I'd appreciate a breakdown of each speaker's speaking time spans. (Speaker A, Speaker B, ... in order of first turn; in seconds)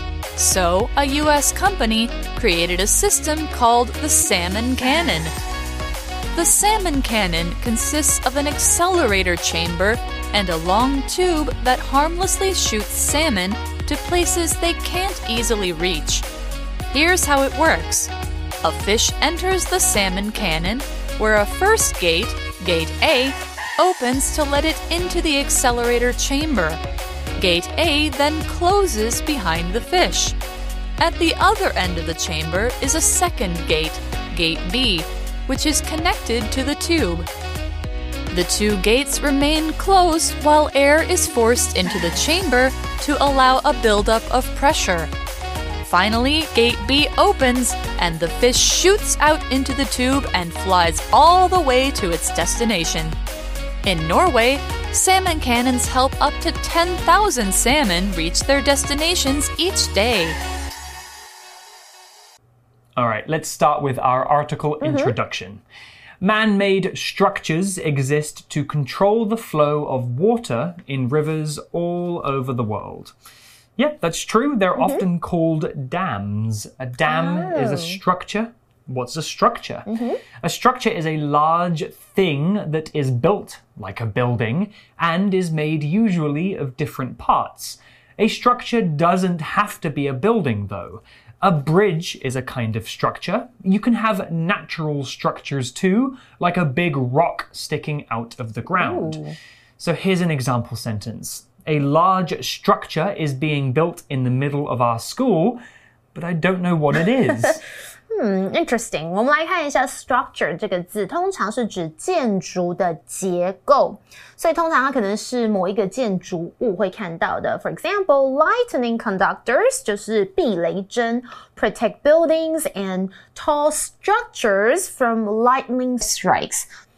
Speaker A: 0.4-5.3, 6.3-16.2, 16.9-18.1, 18.6-26.8, 27.4-30.4, 31.0-37.3, 38.3-45.1, 45.8-53.2, 53.8-60.4
Speaker B: 63.0-65.6, 66.2-73.2, 73.8-99.2, 99.8-105.6, 106.1-107.6
Speaker C: 64.8-65.2, 74.8-75.0, 77.1-78.0, 79.9-80.2, 98.8-99.4, 108.1-126.7